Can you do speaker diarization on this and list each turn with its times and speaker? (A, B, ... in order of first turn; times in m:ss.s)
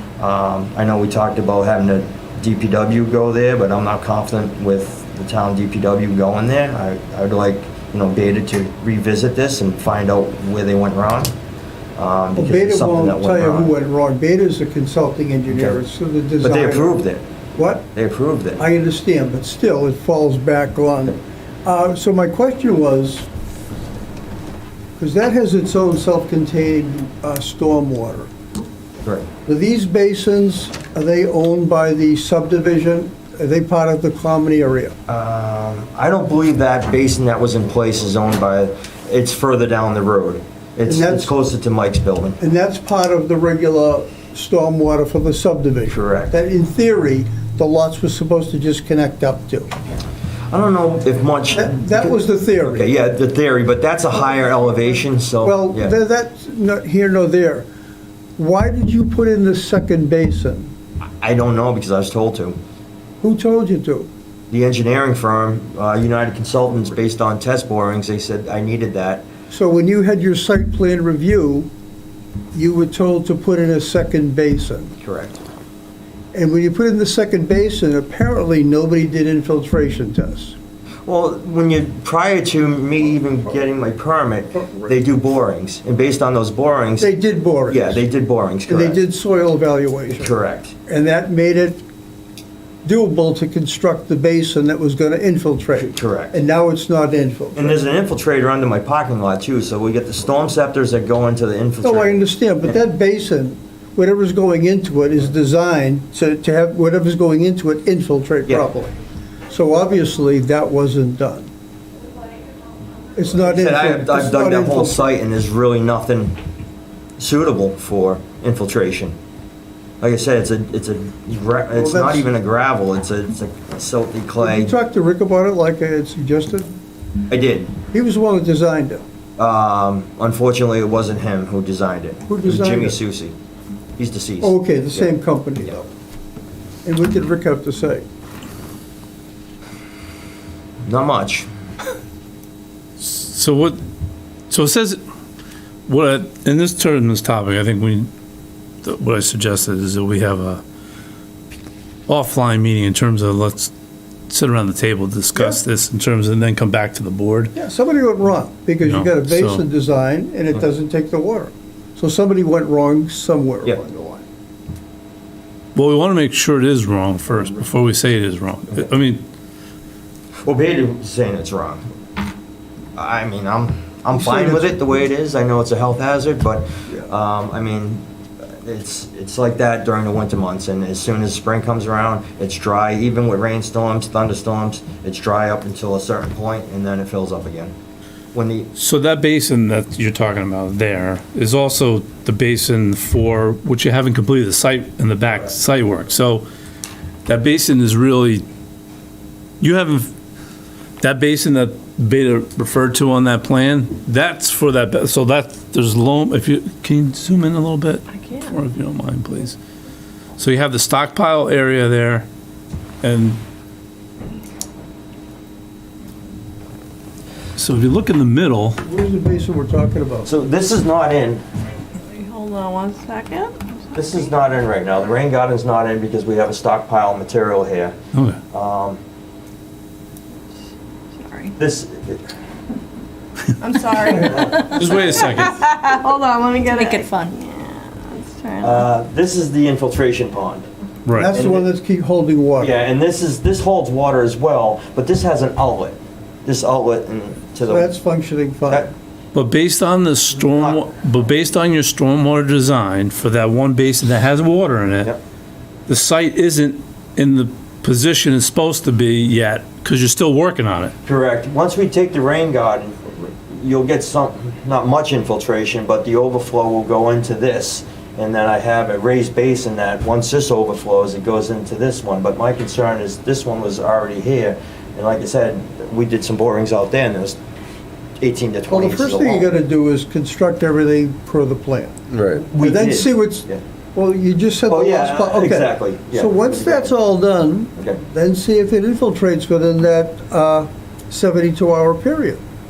0:00.2-0:11.3 A
0:12.0-0:13.7 A
0:12.4-0:17.0 B
0:15.5-0:15.8 A
0:16.4-0:17.3 A
0:17.6-0:17.9 B
0:17.9-0:18.6 A
0:18.6-0:23.3 B
0:25.0-0:28.3 B
0:29.0-0:29.3 A
0:29.5-0:35.0 B
0:35.1-0:42.4 A
0:40.9-0:41.3 B
0:42.4-0:49.7 B
0:45.9-0:46.4 A
0:50.5-0:56.0 A
0:51.5-0:52.9 B
0:55.4-0:57.7 B
0:58.4-1:00.7 B
1:01.2-1:02.6 A
1:03.2-1:04.1 B
1:04.5-1:09.2 A
1:09.5-1:11.7 B
1:12.5-1:15.0 B
1:15.0-1:15.4 A
1:16.3-1:20.6 B
1:21.1-1:27.1 A
1:24.6-1:24.9 B
1:27.0-1:28.0 B
1:27.7-1:29.0 A
1:28.7-1:30.3 B
1:30.1-1:30.8 A
1:30.9-1:31.8 B
1:32.8-1:37.8 B
1:35.8-1:36.4 A
1:37.6-1:42.2 A
1:41.8-1:49.0 B
1:49.5-1:51.5 B
1:53.1-1:55.1 B
1:53.4-1:56.4 A
1:57.2-1:59.2 A
2:00.0-2:04.7 A
2:01.7-2:02.3 B
2:04.4-2:06.7 B
2:07.3-2:07.8 A
2:07.9-2:09.0 B
2:09.4-2:13.4 A
2:12.3-2:13.0 B
2:14.0-2:15.8 A
2:14.4-2:15.9 B
2:16.8-2:18.0 B
2:20.8-2:21.5 A
2:23.0-2:23.8 C
2:24.5-2:25.0 C
2:25.9-2:28.1 C
2:28.8-2:30.6 C
2:32.1-2:33.7 C
2:34.3-2:37.5 C
2:35.4-2:35.6 B
2:37.6-2:44.2 B
2:38.8-2:39.6 C
2:45.8-2:49.2 C
2:50.4-2:51.8 A
2:53.0-3:07.8 A
2:54.1-2:54.8 B
3:08.3-3:08.7 A
3:08.8-3:16.5 C
3:17.3-3:18.5 C
3:19.6-3:20.1 C
3:21.0-3:29.6 C
3:28.2-3:28.5 D
3:30.4-3:32.3 C
3:33.0-3:33.4 C
3:37.6-3:38.8 C
3:38.8-3:40.3 B
3:40.2-3:41.4 A
3:42.1-3:44.1 D
3:43.9-3:48.0 A
3:48.1-3:48.4 C
3:48.5-3:49.0 A
3:51.2-3:51.5 D
3:51.6-3:52.2 A
3:53.6-3:58.9 D
3:54.0-3:55.8 C
3:58.6-4:00.7 A
4:01.1-4:01.3 C
4:01.1-4:02.7 B
4:01.2-4:01.7 A
4:02.6-4:07.9 A
4:07.7-4:08.9 B
4:09.3-4:15.1 C
4:10.4-4:10.8 A
4:15.9-4:21.0 C
4:21.0-4:37.4 A
4:38.2-4:39.5 A
4:38.7-4:42.0 B
4:42.3-4:43.6 A
4:42.6-4:52.4 B
4:44.7-4:46.9 A